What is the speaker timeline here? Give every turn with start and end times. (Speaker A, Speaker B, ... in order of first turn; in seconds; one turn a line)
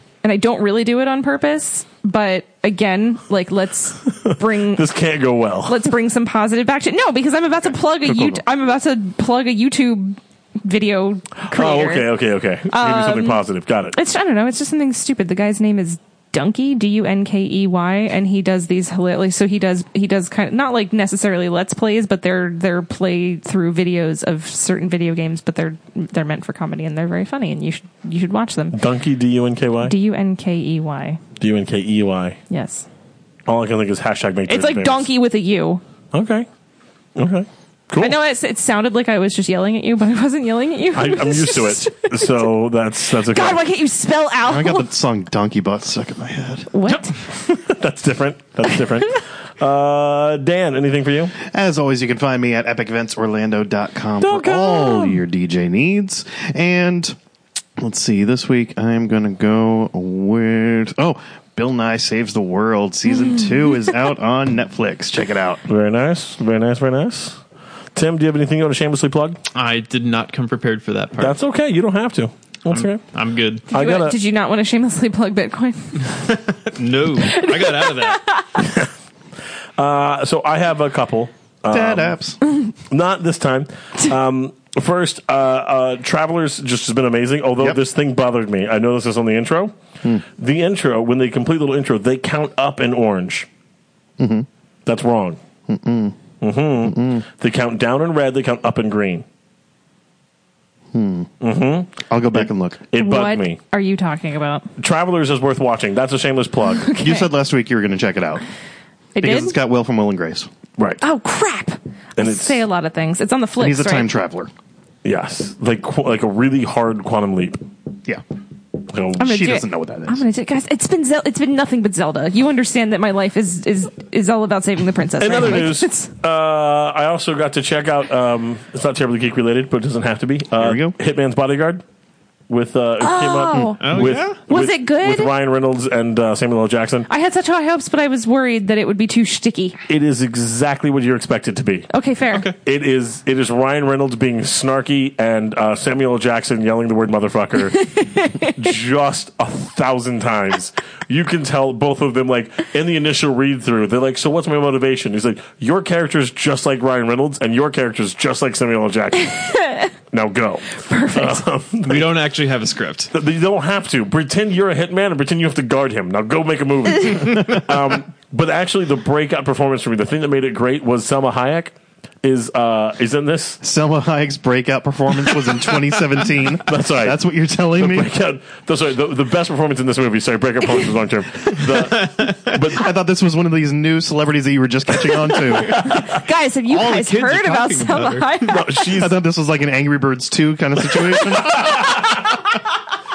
Speaker A: 0.2-4.9
Speaker B: 4.2-5.9
Speaker A: 5.7-12.1
Speaker B: 11.5-14.0
Speaker A: 12.7-13.4
Speaker A: 13.9-28.8
Speaker B: 28.7-29.9
Speaker A: 29.8-31.2
Speaker B: 31.4-32.4
Speaker A: 32.5-32.9
Speaker B: 33.5-35.1
Speaker A: 34.5-35.8
Speaker B: 36.1-36.5
Speaker B: 37.1-38.1
Speaker A: 38.0-42.5
Speaker B: 40.9-43.6
Speaker A: 43.3-44.9
Speaker C: 44.4-46.7
Speaker A: 46.7-47.1
Speaker B: 46.9-51.3
Speaker C: 51.5-57.1
Speaker B: 54.2-55.2
Speaker C: 57.8-65.6
Speaker B: 65.7-67.4
Speaker B: 67.9-69.4
Speaker D: 69.5-71.4
Speaker B: 71.2-73.0
Speaker D: 72.7-73.6
Speaker B: 73.7-74.2
Speaker A: 73.7-76.1
Speaker D: 76.2-78.2
Speaker A: 77.2-78.7
Speaker B: 78.6-78.9
Speaker B: 79.8-82.2
Speaker C: 81.7-82.4
Speaker B: 82.7-93.5
Speaker C: 94.2-94.5
Speaker B: 94.9-95.4
Speaker C: 95.7-96.2
Speaker B: 96.4-99.2
Speaker C: 96.9-97.2
Speaker C: 100.9-101.3
Speaker B: 101.4-103.6
Speaker C: 102.1-102.8
Speaker A: 102.9-104.7
Speaker B: 104.8-106.9
Speaker A: 106.8-107.3
Speaker C: 107.0-108.4
Speaker A: 109.2-109.6
Speaker C: 109.2-110.5
Speaker A: 111.0-114.1
Speaker B: 112.2-112.6
Speaker C: 113.6-114.5
Speaker B: 115.0-117.6
Speaker B: 118.9-119.4
Speaker C: 119.2-120.2
Speaker A: 119.2-126.1
Speaker B: 125.2-131.8
Speaker C: 130.6-130.9
Speaker B: 132.5-137.1
Speaker A: 133.0-135.3
Speaker D: 133.8-134.4
Speaker A: 137.1-139.8
Speaker B: 139.9-141.9
Speaker A: 141.9-142.5
Speaker B: 142.6-147.9
Speaker A: 147.8-148.6
Speaker B: 148.4-162.2
Speaker A: 159.4-159.9
Speaker A: 160.8-161.4
Speaker D: 161.8-163.1
Speaker B: 163.1-173.6
Speaker C: 173.6-178.1
Speaker B: 176.7-177.2
Speaker B: 177.7-182.9
Speaker C: 182.6-186.1
Speaker B: 185.6-186.2
Speaker A: 185.8-188.9
Speaker D: 186.7-188.4
Speaker B: 188.4-189.2
Speaker C: 188.9-192.0
Speaker B: 191.2-192.5